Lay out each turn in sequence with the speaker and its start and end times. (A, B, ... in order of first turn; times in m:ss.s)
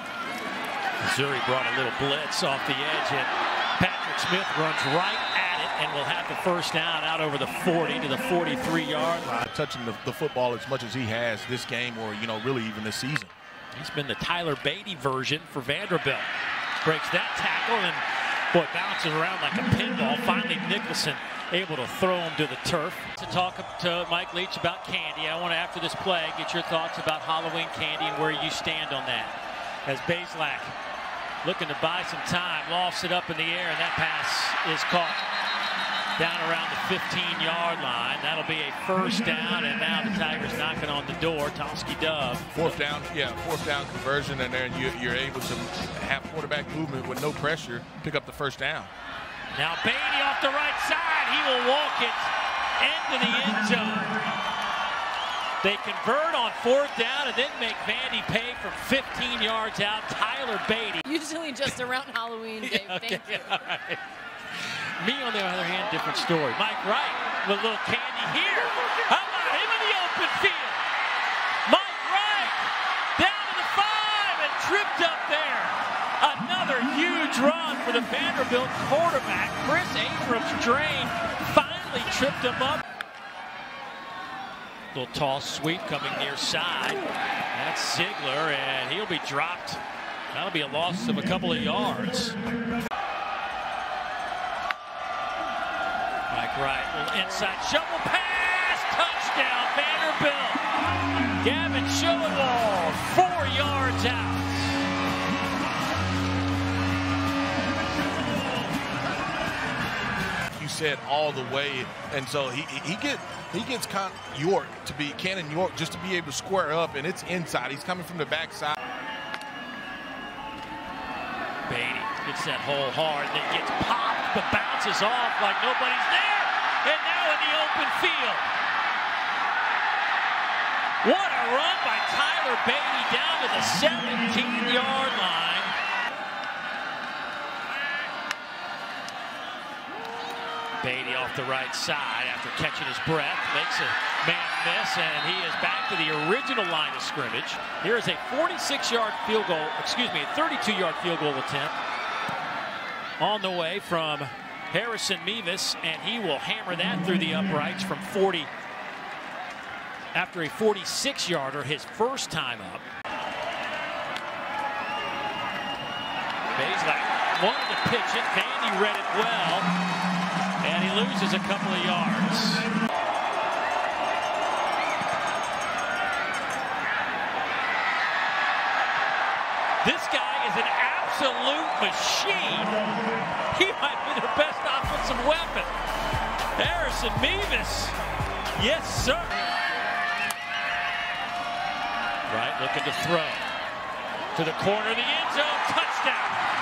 0:01.0-0:09.4 A
0:09.3-0:13.3 B
0:13.7-0:16.3 A
0:16.8-0:30.8 A
0:31.4-0:35.2 A
0:36.2-0:42.8 A
0:42.5-0:48.9 B
0:49.5-0:54.2 A
0:55.6-1:01.1 A
1:01.1-1:03.4 C
1:02.6-1:10.8 A
1:11.7-1:22.8 A
1:24.9-1:29.8 A
1:30.3-1:32.4 A
1:36.3-1:40.6 A
1:41.4-1:44.8 A
1:50.5-1:58.8 B
2:01.7-2:08.5 A
2:11.0-2:15.7 A
2:20.8-2:31.8 A
2:33.2-2:38.5 A
2:40.1-2:42.8 A
2:46.5-2:49.7 A
2:50.6-2:52.7 A
2:59.8-3:02.8 A
3:03.5-3:05.7 A
3:06.6-3:08.0 A
3:08.5-3:09.4 A
3:12.3-3:13.5 A
3:14.3-3:16.5 A